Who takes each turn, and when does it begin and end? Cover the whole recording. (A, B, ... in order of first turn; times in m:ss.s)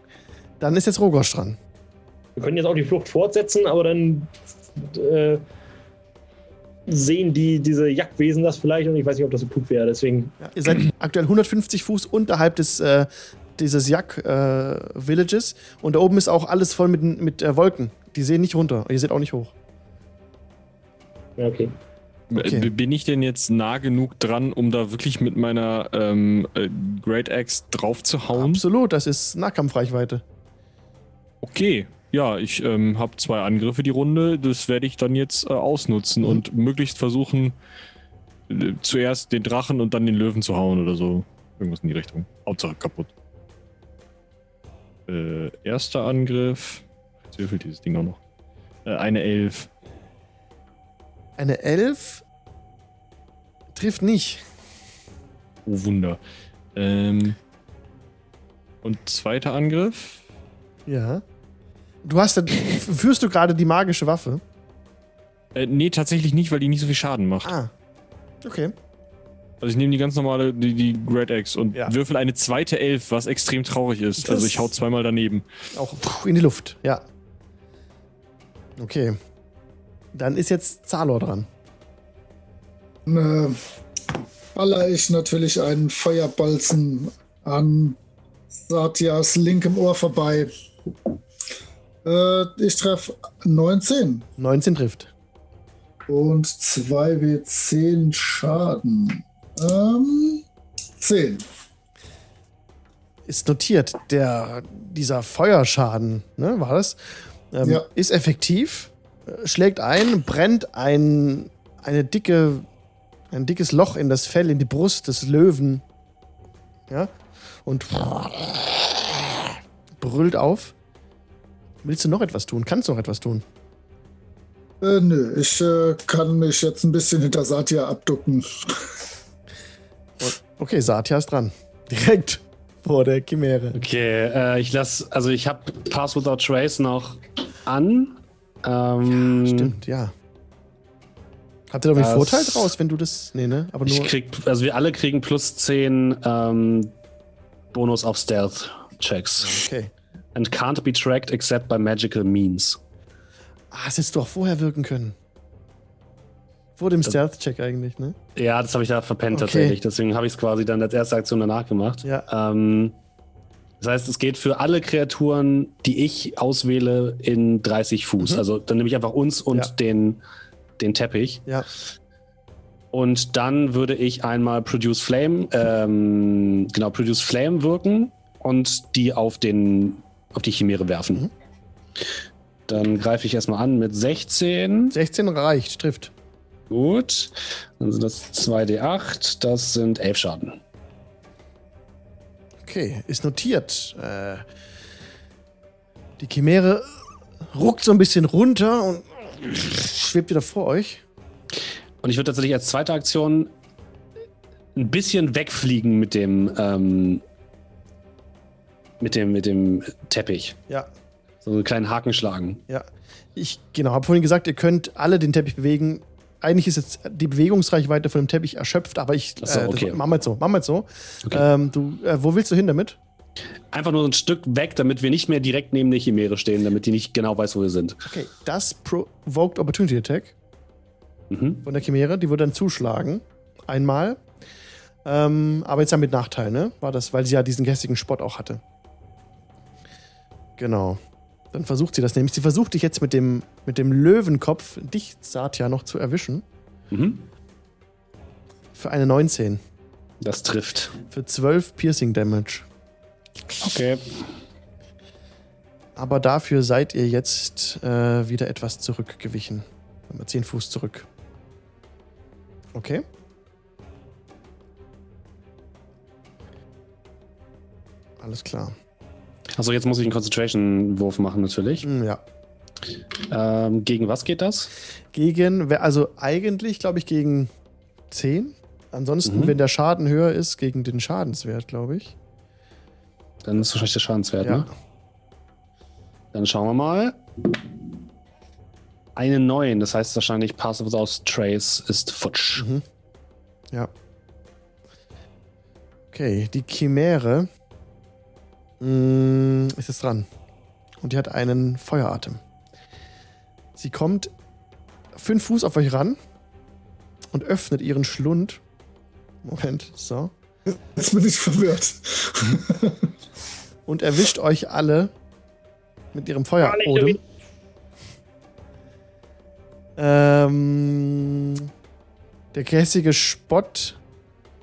0:00.6-0:01.6 A
0:02.4-0:05.4 B
0:06.9-0:10.4 B
0:10.4-0:19.5 A
0:21.4-0:21.7 B
0:22.3-0:28.6 C
0:22.3-0:22.7 A
0:28.3-0:30.2 A
0:31.4-0:37.6 C
0:38.5-0:43.1 C
0:45.1-0:48.2 C
0:48.8-0:49.7 C
0:51.4-0:52.2 A
0:53.7-0:54.4 A
0:55.6-0:56.2 C
0:56.7-0:57.4 C
0:58.8-1:00.2 C
1:00.9-1:01.2 A
1:02.0-1:04.4 A
1:05.5-1:07.5 C
1:07.4-1:07.7 A
1:08.4-1:08.7 A
1:09.6-1:15.4 C
1:14.2-1:14.7 A
1:15.7-1:17.0 A
1:18.8-1:19.2 A
1:20.1-1:21.5 A
1:23.0-1:23.6 D
1:24.5-1:28.0 D
1:28.6-1:30.5 D
1:32.0-1:34.3 D
1:34.4-1:35.1 A
1:36.1-1:40.4 D
1:41.0-1:41.4 D
1:43.3-1:52.7 A
1:53.3-1:55.8 A
1:57.6-2:00.7 A
2:01.8-2:03.4 A
2:04.8-2:09.0 D
2:10.2-2:13.8 A
2:13.7-2:19.7 E
2:19.0-2:20.1 A
2:21.7-2:24.1 A
2:22.0-2:22.7 E
2:23.8-2:26.9 E
2:27.7-2:29.6 E
2:29.4-2:29.9 A
2:30.3-2:32.8 E
2:33.7-2:35.1 A
2:36.8-2:38.1 A
2:38.4-2:43.0 E
2:39.3-2:39.8 A
2:42.0-2:42.3 A
2:43.8-2:50.2 E
2:50.8-2:51.5 E
2:52.9-3:01.2 E
3:02.7-3:04.9 E
3:04.9-3:06.1 A
3:06.7-3:10.6 E
3:12.6-3:14.4 A
3:16.2-3:16.9 A
3:17.5-3:21.0 A
3:22.0-3:23.5 E
3:24.7-3:27.2 E
3:29.0-3:30.6 E
3:31.4-3:32.6 E
3:32.7-3:43.0 A
3:39.4-3:40.0 E
3:43.7-3:48.0 E
3:48.0-3:50.3 A
3:51.3-3:51.6 E
3:51.6-3:54.2 A
3:55.0-3:58.6 A
4:00.6-4:01.0 A
4:01.5-4:06.4 A
4:06.9-4:07.3 E
4:08.7-4:09.6 A
4:10.2-4:10.9 E
4:11.1-4:12.6 A
4:13.6-4:14.2 E
4:16.0-4:21.1 A
4:22.7-4:23.0 A
4:28.2-4:28.7 A
4:29.5-4:31.8 E
4:31.8-4:32.2 A
4:33.3-4:34.7 E
4:35.1-4:37.5 A
4:38.1-4:42.2 A
4:39.2-4:39.5 E
4:43.4-4:44.7 E
4:44.4-4:44.7 A
4:46.3-4:47.7 E
4:49.2-4:52.6 E
4:52.6-4:52.8 A
4:56.1-4:57.5 A
4:58.8-5:00.3 A
5:01.0-5:02.4 A
5:03.8-5:04.3 A
5:05.1-5:06.2 A
5:07.3-5:08.6 A
5:09.4-5:10.3 A
5:10.9-5:13.1 D
5:13.9-5:15.1 A
5:16.1-5:17.2 A
5:16.6-5:17.2 B
5:20.0-5:21.7 A
5:22.5-5:24.0 A